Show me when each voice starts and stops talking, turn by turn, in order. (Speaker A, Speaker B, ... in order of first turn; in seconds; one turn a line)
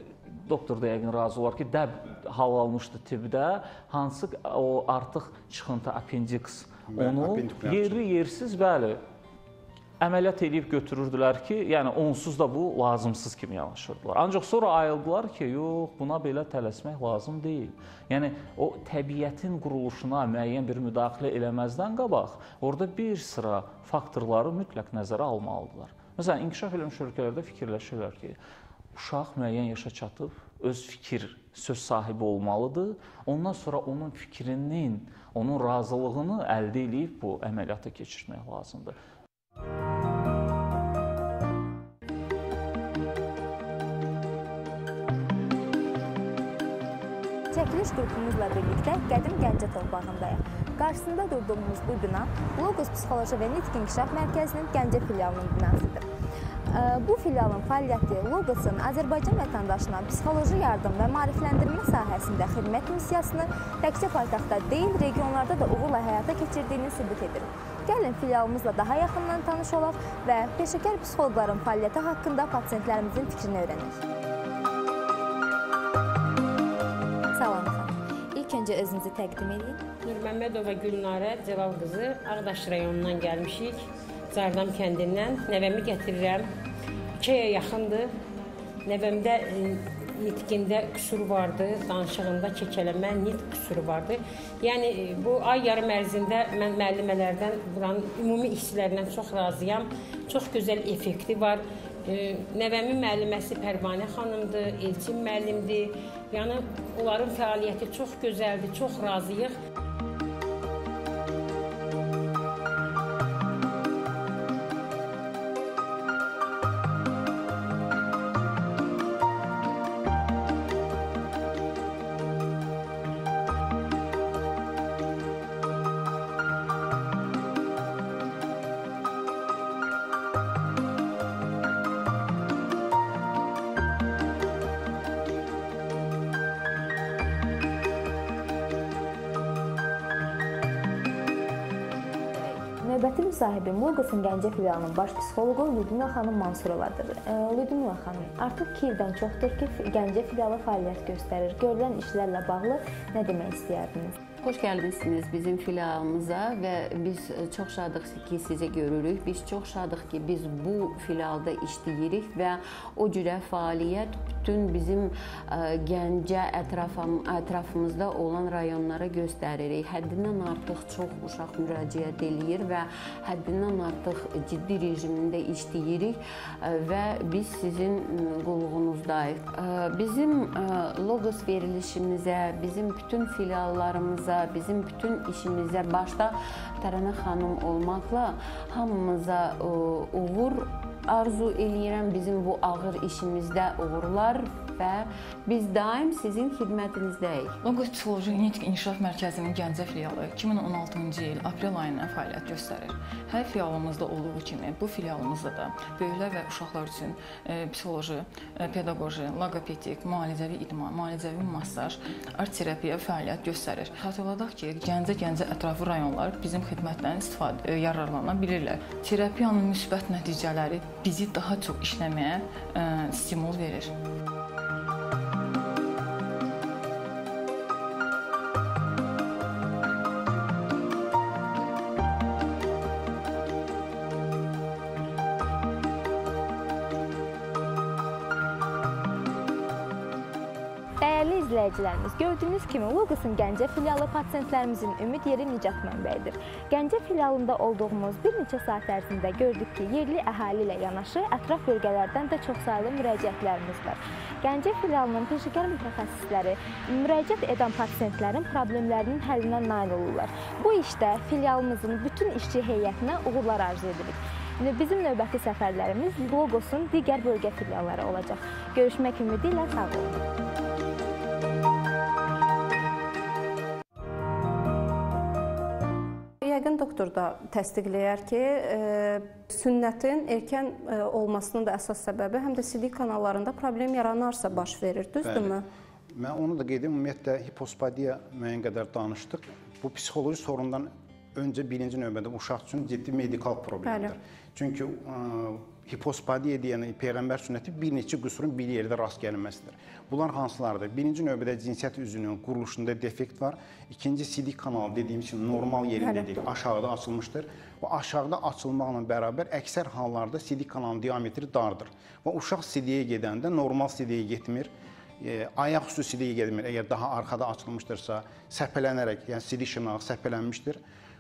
Speaker A: 0.5-9.0
Speaker B: 6.9-8.0
Speaker A: 10.0-28.4
Speaker A: 29.0-39.0
Speaker C: 47.5-56.1
Speaker C: 56.7-74.0
Speaker C: 77.3-79.8
Speaker D: 80.0-86.5
Speaker D: 87.2-88.1
Speaker D: 88.8-109.5
Speaker C: 142.8-154.2
Speaker E: 154.4-197.6
Speaker F: 197.6-223.9
Speaker C: 241.0-270.2
Speaker G: 276.4-285.6
Speaker B: 285.2-285.5
Speaker B: 286.2-314.7
Speaker G: 293.9-294.1
Speaker G: 306.0-306.3
Speaker B: 315.2-320.8